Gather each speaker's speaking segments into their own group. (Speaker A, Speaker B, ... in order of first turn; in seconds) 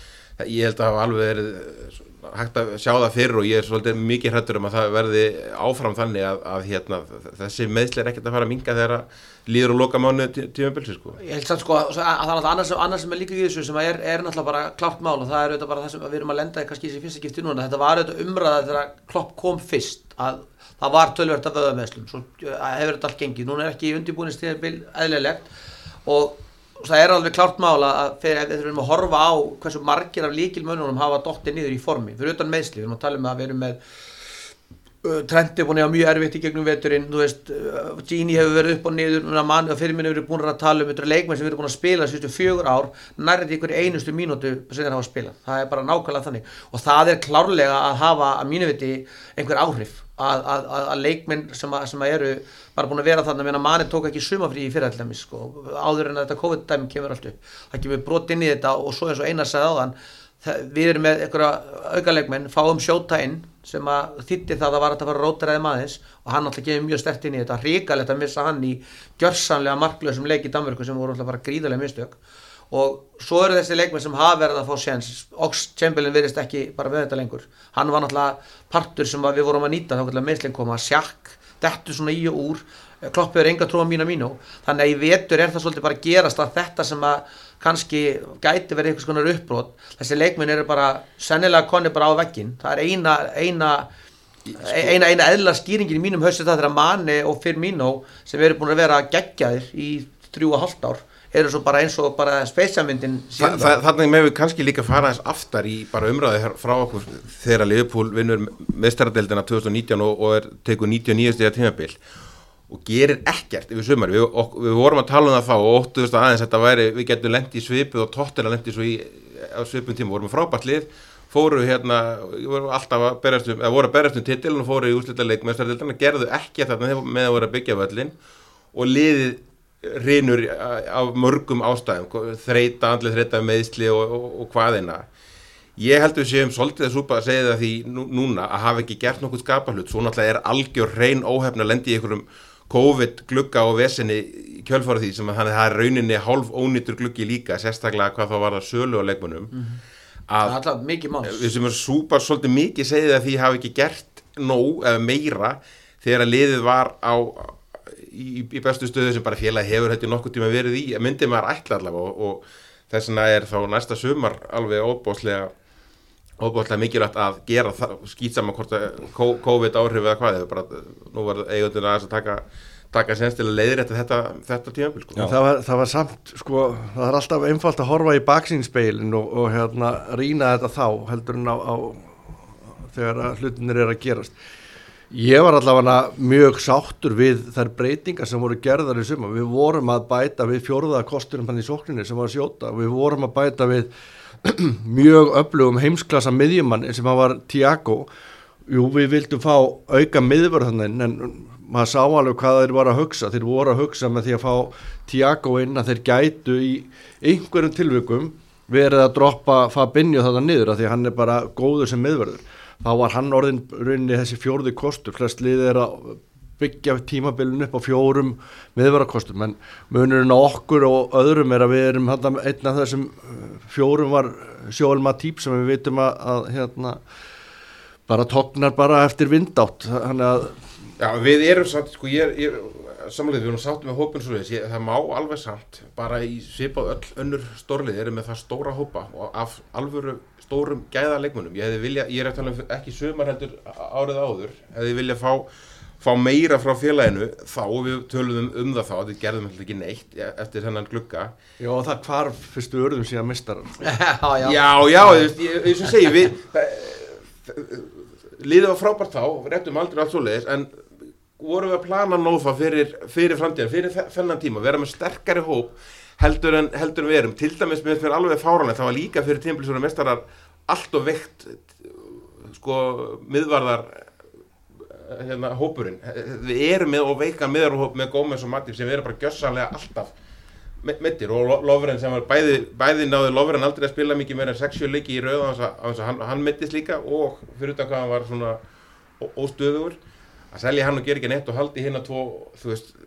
Speaker A: 0.4-11.2, 94.5-94.9, 103.4-112.0, 112.7-128.1, 128.7-135.0, 135.8-149.5, 150.3-150.6, 151.2-165.5, 166.4-175.2, 231.0-245.5, 246.0-251.3, 254.4-260.8, 261.4-274.1, 274.9-280.1, 280.8-288.6, 289.2-290.0, 290.5-292.9
Speaker B: 11.2-25.5, 26.1-33.8, 35.0-72.2, 72.7-93.9, 94.6-103.8, 149.5-149.8, 150.4-151.5, 253.8-255.3
Speaker C: 175.2-182.4, 182.9-184.3, 185.1-193.9, 194.4-198.1, 198.7-227.0, 228.1-230.6, 251.6-253.8